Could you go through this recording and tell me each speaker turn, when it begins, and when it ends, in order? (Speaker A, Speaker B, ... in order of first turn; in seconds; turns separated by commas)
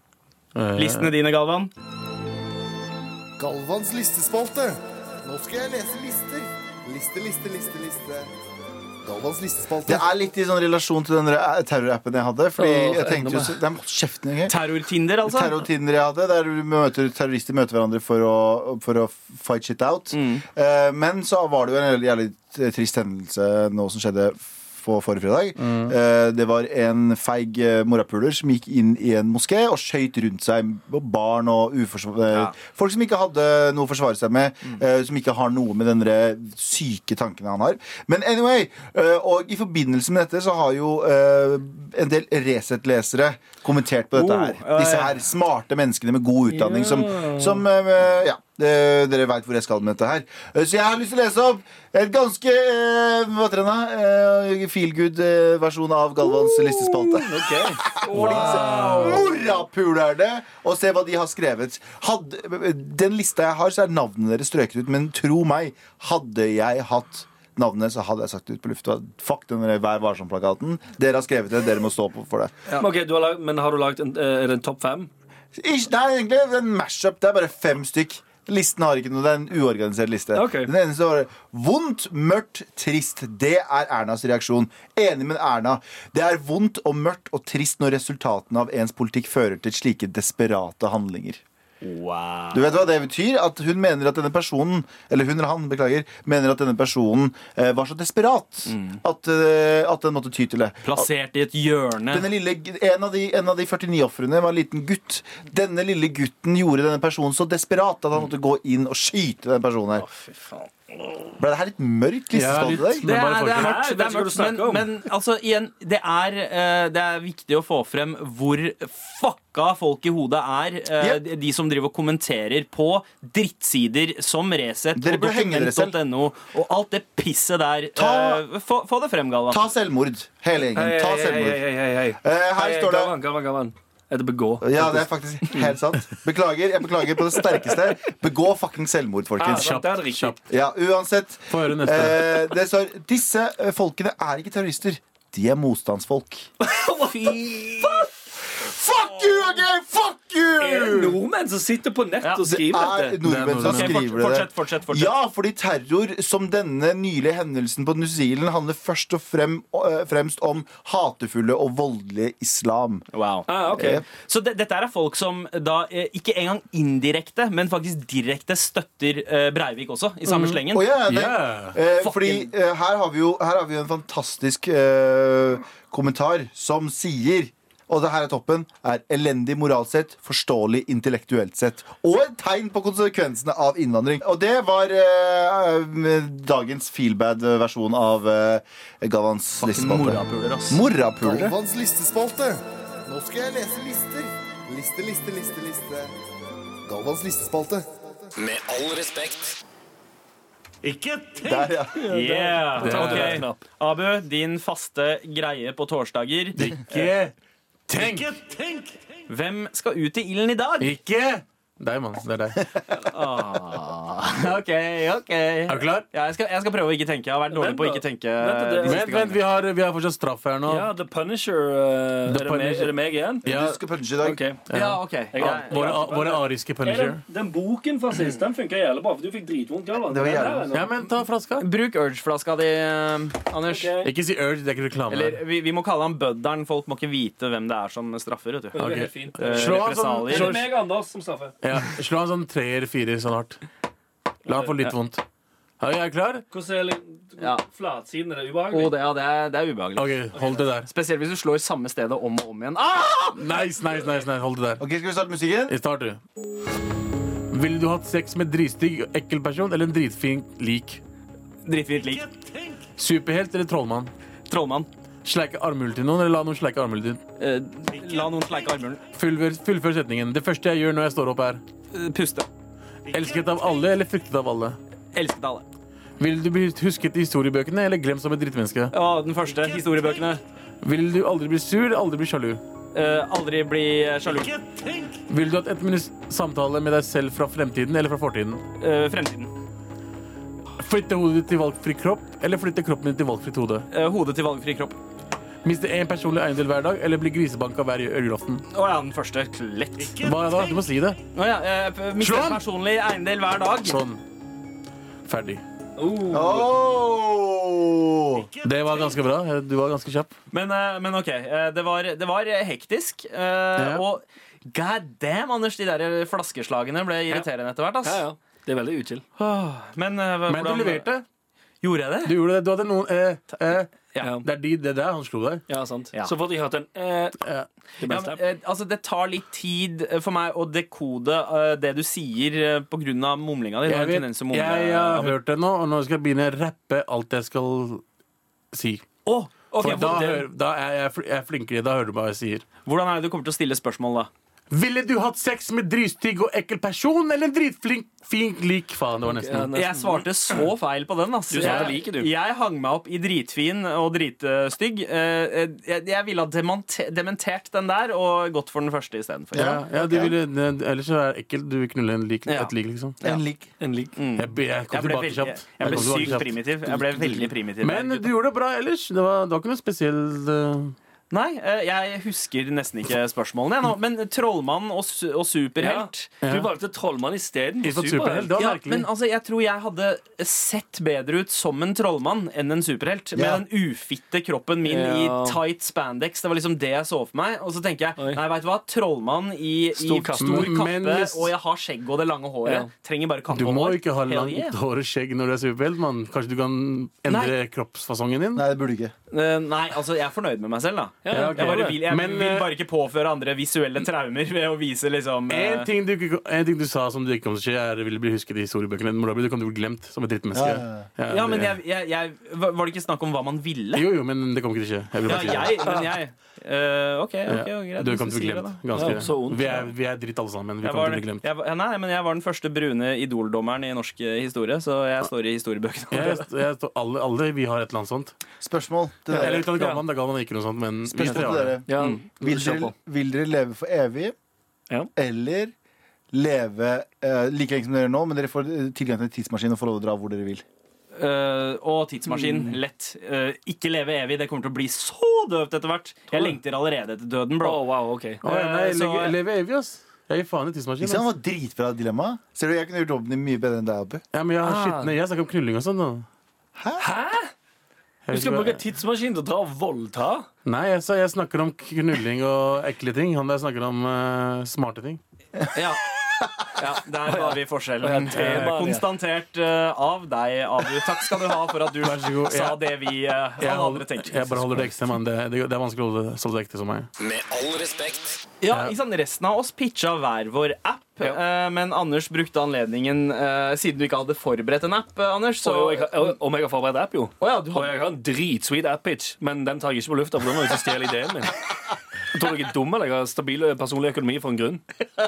Speaker A: 0.5-1.1, Speaker B: 0.8-1.7, Speaker C: 3.4-8.3, Speaker C: 9.0-10.0, Speaker D: 9.8-72.6, Speaker E: 12.6-13.6, Speaker B: 14.4-15.7, Speaker B: 20.1-20.4, Speaker A: 25.6-25.9, Speaker B: 44.1-45.2, Speaker E: 46.5-47.6, Speaker E: 56.2-59.2, Speaker B: 58.1-59.5, Speaker E: 72.8-75.1, Speaker D: 75.5-91.4, Speaker E: 80.3-80.7, Speaker B: 91.8-92.7, Speaker D: 92.5-101.1, Speaker B: 98.7-99.0, Speaker B: 100.8-102.3, Speaker D: 102.1-110.1, Speaker B: 110.0-111.3, Speaker D: 111.4-113.1, Speaker A: 112.3-113.8, Speaker B: 113.0-129.7, Speaker E: 113.5-114.9, Speaker D: 124.9-126.0, Speaker D: 127.9-128.4, Speaker D: 129.5-131.6, Speaker E: 130.7-135.6, Speaker D: 132.2-133.2, Speaker D: 134.6-139.8, Speaker E: 139.4-140.3, Speaker A: 139.5-140.4, Speaker D: 140.5-146.5, Speaker A: 141.5-142.5, Speaker E: 146.6-148.1, Speaker D: 148.5-151.2, Speaker E: 150.6-153.7, Speaker B: 152.2-152.5, Speaker D: 152.4-163.0, Speaker A: 153.2-153.9, Speaker B: 153.6-155.1, Speaker B: 163.1-170.9, Speaker E: 163.5-164.0, Speaker D: 163.7-164.0, Speaker A: 170.2-171.8, Speaker D: 170.7-191.6, Speaker B: 171.9-172.5, Speaker B: 189.6-190.8, Speaker C: 191.2-196.1, Speaker C: 196.8-198.3, Speaker F: 198.3-199.6, Speaker A: 200.8-201.7, Speaker D: 201.4-202.0, Speaker E: 201.9-203.6, Speaker B: 202.1-207.1, Speaker A: 202.8-203.4, Speaker A: 206.6-207.3, Speaker A: 207.9-208.9, Speaker B: 209.3-210.9, Speaker A: 210.8-212.7, Speaker B: 212.9-219.4, Speaker A: 215.7-216.1, Speaker E: 217.5-219.2, Speaker A: 218.8-220.9, Speaker E: 220.7-223.4, Speaker A: 222.3-223.8, Speaker D: 223.4-224.4, Speaker E: 224.2-224.6, Speaker A: 224.7-227.2, Speaker B: 224.7-226.1, Speaker E: 225.3-230.9, Speaker D: 230.0-230.7, Speaker A: 230.7-231.7, Speaker B: 231.6-234.0, Speaker E: 233.7-234.1, Speaker A: 234.0-235.4, Speaker B: 235.1-238.8, Speaker E: 238.7-241.5, Speaker A: 238.8-240.7, Speaker B: 239.4-240.6, Speaker A: 241.6-243.6, Speaker A: 244.4-245.2, Speaker A: 245.8-246.4, Speaker E: 246.5-248.9, Speaker B: 248.7-253.4, Speaker A: 249.9-250.9, Speaker A: 253.3-254.8, Speaker D: 254.8-255.8, Speaker A: 255.7-256.2, Speaker A: 257.5-261.0, Speaker B: 261.6-262.3, Speaker A: 262.8-264.1, Speaker B: 264.5-264.9, Speaker A: 265.2-267.2, Speaker B: 267.4-269.0, Speaker A: 269.1-271.6, Speaker B: 271.9-272.4, Speaker A: 273.1-274.8, Speaker B: 275.1-275.6, Speaker A: 276.2-278.9, Speaker B: 278.9-280.4, Speaker A: 280.8-282.6, Speaker B: 282.9-284.6, Speaker A: 284.7-288.6, Speaker B: 288.8-289.5, Speaker A: 290.8-293.9, Speaker B: 293.9-295.0, Speaker A: 295.6-298.6, Speaker B: 298.7-300.2, Speaker A: 300.2-301.2, Speaker B: 301.3-304.0, Speaker A: 302.2-302.6, Speaker A: 303.8-304.2, Speaker A: 305.2-305.6, Speaker E: 306.0-306.7, Speaker D: 306.3-308.5, Speaker A: 308.6-310.3, Speaker B: 310.5-318.2, Speaker A: 313.8-314.0, Speaker E: 318.0-319.2, Speaker B: 319.4-321.1, Speaker A: 320.5-321.2, Speaker B: 321.8-322.3, Speaker A: 322.2-325.6, Speaker E: 324.2-324.5, Speaker E: 325.7-327.4, Speaker A: 327.4-327.7, Speaker E: 328.0-328.4, Speaker B: 328.0-335.3, Speaker A: 333.9-338.0, Speaker A: 338.7-339.0, Speaker B: 339.2-340.4, Speaker A: 339.8-342.6, Speaker B: 342.9-344.3, Speaker A: 344.7-349.7, Speaker E: 349.3-350.6, Speaker B: 349.7-359.8, Speaker E: 351.5-352.3, Speaker D: 359.5-360.4, Speaker A: 359.5-363.2, Speaker B: 362.5-363.4, Speaker D: 363.2-363.7, Speaker E: 363.8-364.1, Speaker B: 364.1-368.3, Speaker A: 364.4-370.9, Speaker B: 371.3-376.3, Speaker E: 375.8-378.5, Speaker A: 376.4-376.7, Speaker A: 377.8-379.1, Speaker B: 378.6-394.7, Speaker D: 383.3-383.6, Speaker E: 384.8-385.6, Speaker E: 389.9-390.7, Speaker A: 390.4-391.5, Speaker A: 393.5-398.6, Speaker B: 397.2-397.5, Speaker D: 398.6-399.1, Speaker B: 399.3-405.9, Speaker E: 401.2-402.0, Speaker A: 401.3-402.7, Speaker A: 405.5-411.8, Speaker D: 410.5-411.1, Speaker B: 411.3-414.0, Speaker A: 413.9-415.9, Speaker B: 415.2-419.2, Speaker E: 415.8-416.1, Speaker A: 417.5-421.4, Speaker E: 418.9-419.8, Speaker B: 420.8-426.4, Speaker A: 426.1-428.3, Speaker D: 428.6-429.7, Speaker A: 429.3-431.8, Speaker E: 429.3-430.0, Speaker D: 431.1-434.3, Speaker E: 431.3-432.9, Speaker D: 435.1-435.7, Speaker D: 436.3-440.6, Speaker B: 441.1-447.8, Speaker E: 442.3-442.8, Speaker E: 447.6-448.4, Speaker B: 448.4-449.3, Speaker A: 448.4-451.3, Speaker D: 451.0-454.2, Speaker A: 454.3-456.2, Speaker E: 454.6-455.1, Speaker D: 456.8-457.0, Speaker E: 457.0-457.5, Speaker A: 458.2-458.8, Speaker E: 458.3-460.5, Speaker A: 460.6-465.2, Speaker B: 465.7-466.0, Speaker B: 466.8-474.9, Speaker E: 467.2-469.0, Speaker A: 472.0-472.9, Speaker A: 473.6-477.1, Speaker F: 477.2-478.4, Speaker B: 478.6-486.3, Speaker E: 485.6-491.6, Speaker B: 487.4-487.9, Speaker E: 492.3-494.8